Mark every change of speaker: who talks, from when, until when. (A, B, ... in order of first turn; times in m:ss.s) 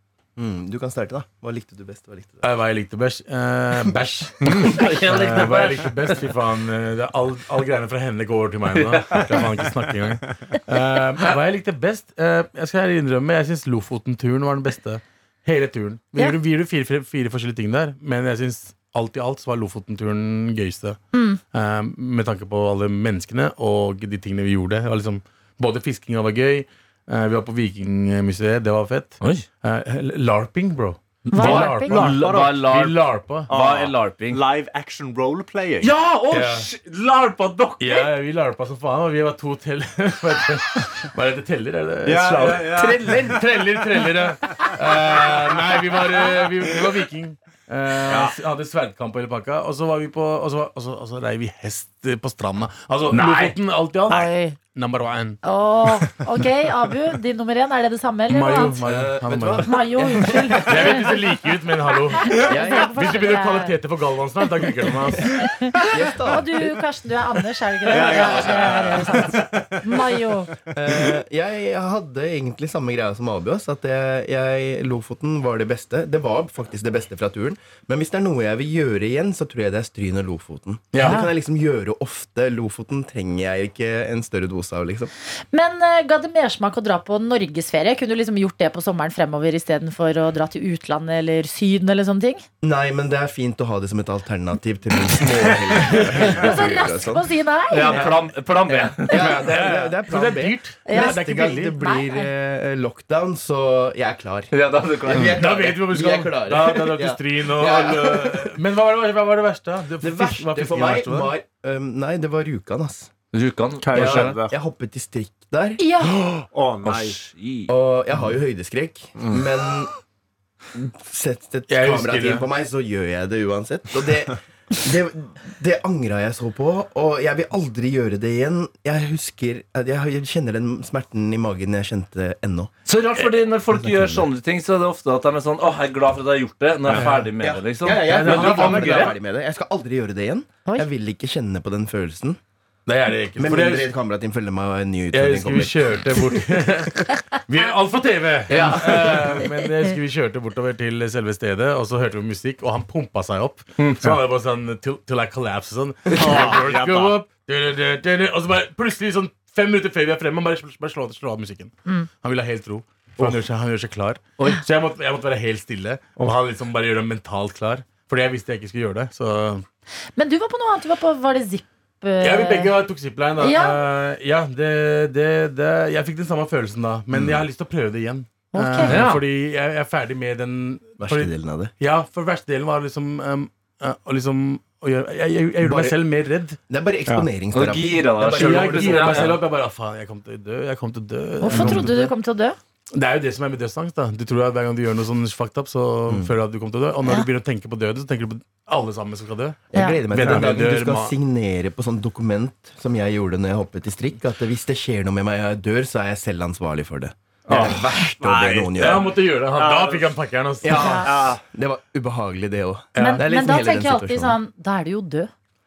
0:00.4-0:02.4 A
0:02.4-0:33.5 B
0:04.4-0:04.8 C
0:04.6-0:06.2 D
0:08.7-0:09.4 D
0:21.1-0:21.4 E
0:31.3-0:32.0 E
0:31.4-0:34.4 D
0:31.4-0:32.7 C
0:33.5-0:35.9 C
0:35.8-0:38.1 D
0:37.8-0:55.4 B
0:42.0-0:43.5 C
0:48.0-0:48.4 C
0:53.1-0:53.6 D
0:54.1-0:54.6 E
0:55.4-0:58.8 E
0:58.3-0:59.7 B
0:58.8-1:00.6 A
0:59.6-1:01.1 E
1:00.6-1:05.6 B
1:02.2-1:03.8 E
1:02.5-1:03.0 A
1:05.3-1:10.5 E
1:05.9-1:06.8 A
1:07.9-1:10.0 C
1:10.8-1:25.1 A
1:20.9-1:21.2 B
1:21.0-1:21.3 E
1:25.5-1:32.4 E
1:32.6-1:37.3 A
1:35.9-1:36.4 B
1:36.4-1:38.1 E
1:37.7-1:39.4 D
1:37.9-1:44.5 A
1:39.1-1:41.8 B
1:40.9-1:42.3 E
1:44.5-1:45.5 D
1:45.0-1:48.6 A
1:45.2-1:51.3 B
1:50.0-1:53.1 A
1:53.3-1:54.4 D
1:53.8-1:54.5 C
1:53.9-1:55.8 A
1:55.8-1:56.2 E
1:56.5-1:57.2 C
1:56.8-1:57.7 D
1:57.7-1:59.9 A
2:01.0-2:12.7 A
2:01.7-2:02.5 B
2:12.9-2:19.1 D
2:13.7-2:14.2 A
2:16.9-2:17.1 C
2:16.9-2:19.2 B
2:17.4-2:22.4 A
2:22.9-2:23.9 B
2:23.4-2:26.4 A
2:25.1-2:49.6 B
2:28.5-2:29.3 D
2:28.6-2:29.1 A
2:36.2-2:37.1 C
2:50.2-2:52.7 E
2:52.2-3:06.6 B
2:53.4-2:53.8 E
2:57.1-2:57.4 A
2:58.5-2:59.0 E
2:58.9-2:59.2 D
3:01.0-3:01.7 A
3:05.6-3:06.1 A
3:06.7-3:09.4 A
3:07.5-3:09.4 D
3:08.3-3:12.1 B
3:11.4-3:12.6 E
3:11.5-3:11.8 A
3:12.9-3:21.1 B
3:16.1-3:16.3 A
3:19.7-3:29.1 A
3:19.7-3:20.0 E
3:20.2-3:20.5 C
3:27.5-3:30.1 C
3:27.5-3:27.9 D
3:28.7-3:31.0 B
3:30.6-3:34.4 A
3:30.7-3:31.1 E
3:31.0-3:31.4 C
3:33.0-3:33.2 B
3:33.0-3:35.3 E